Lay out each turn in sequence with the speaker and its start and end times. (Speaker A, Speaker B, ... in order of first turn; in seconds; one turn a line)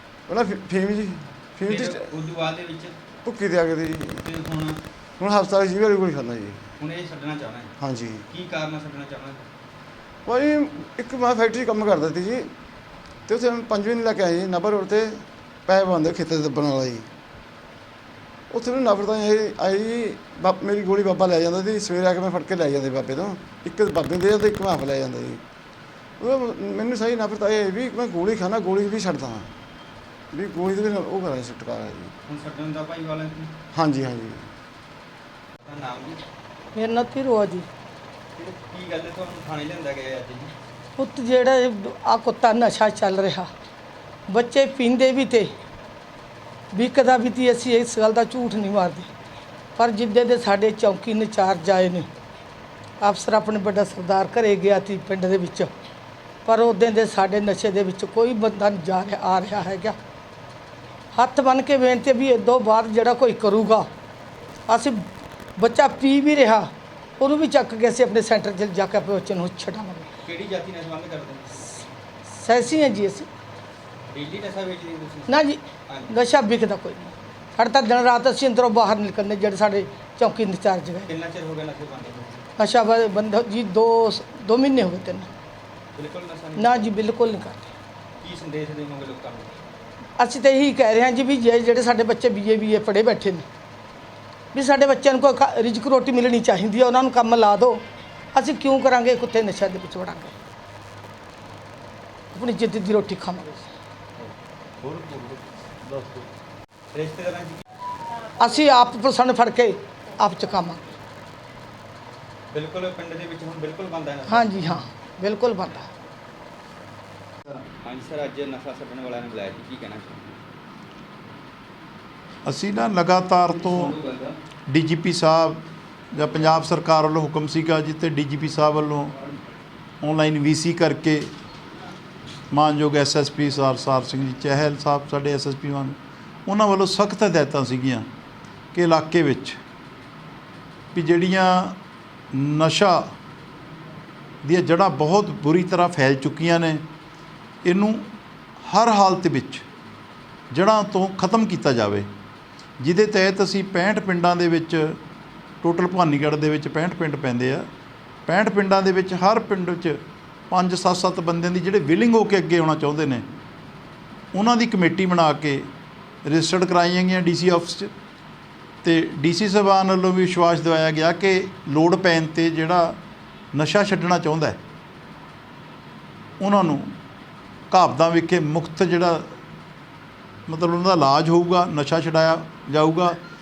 Speaker A: 0.3-1.8
Speaker B: 1.6-2.9
Speaker A: 3.2-4.0
Speaker B: 4.2-4.8
Speaker A: 5.2-6.6
Speaker B: 6.8-7.7
Speaker A: 7.8-8.2
Speaker B: 8.3-9.4
Speaker A: 10.2-12.5
Speaker A: 13.3-17.1
Speaker A: 18.5-25.4
Speaker A: 26.2-29.5
Speaker A: 30.3-32.1
Speaker B: 32.3-33.5
Speaker A: 33.7-34.4
Speaker B: 35.6-36.2
Speaker C: 36.7-37.6
Speaker B: 38.4-40.5
Speaker C: 41.0-43.5
Speaker C: 44.3-45.5
Speaker C: 46.7-49.1
Speaker C: 49.8-52.1
Speaker C: 53.0-55.7
Speaker C: 56.5-60.0
Speaker C: 61.1-63.9
Speaker C: 64.7-65.0
Speaker C: 65.6-70.1
Speaker B: 70.2-71.8
Speaker C: 72.3-73.3
Speaker B: 74.1-76.3
Speaker C: 75.3-75.6
Speaker C: 76.1-81.0
Speaker B: 81.0-82.5
Speaker C: 82.6-85.3
Speaker B: 86.0-87.0
Speaker C: 86.6-87.7
Speaker B: 88.2-89.6
Speaker C: 90.2-93.5
Speaker C: 94.5-97.8
Speaker C: 98.3-100.3
Speaker C: 102.3-103.7
Speaker D: 104.8-106.2
Speaker B: 106.9-107.6
Speaker C: 108.4-110.9
Speaker B: 112.5-114.8
Speaker C: 114.3-115.9
Speaker B: 117.5-120.4
Speaker D: 122.4-124.0
Speaker B: 123.5-124.3
Speaker D: 124.7-129.1
Speaker D: 130.0-131.3
Speaker D: 132.5-138.1
Speaker D: 138.7-139.6
Speaker D: 140.9-141.8
Speaker D: 142.3-143.1
Speaker D: 144.4-146.8
Speaker D: 147.6-148.1
Speaker D: 148.6-149.6
Speaker D: 150.5-152.1
Speaker D: 152.8-155.0
Speaker D: 155.6-157.7
Speaker D: 158.3-160.0
Speaker D: 160.5-163.2
Speaker D: 164.3-165.7
Speaker D: 166.2-167.9
Speaker D: 168.8-173.0
Speaker D: 173.5-174.6
Speaker D: 176.4-176.9
Speaker D: 177.7-179.3
Speaker D: 180.5-183.2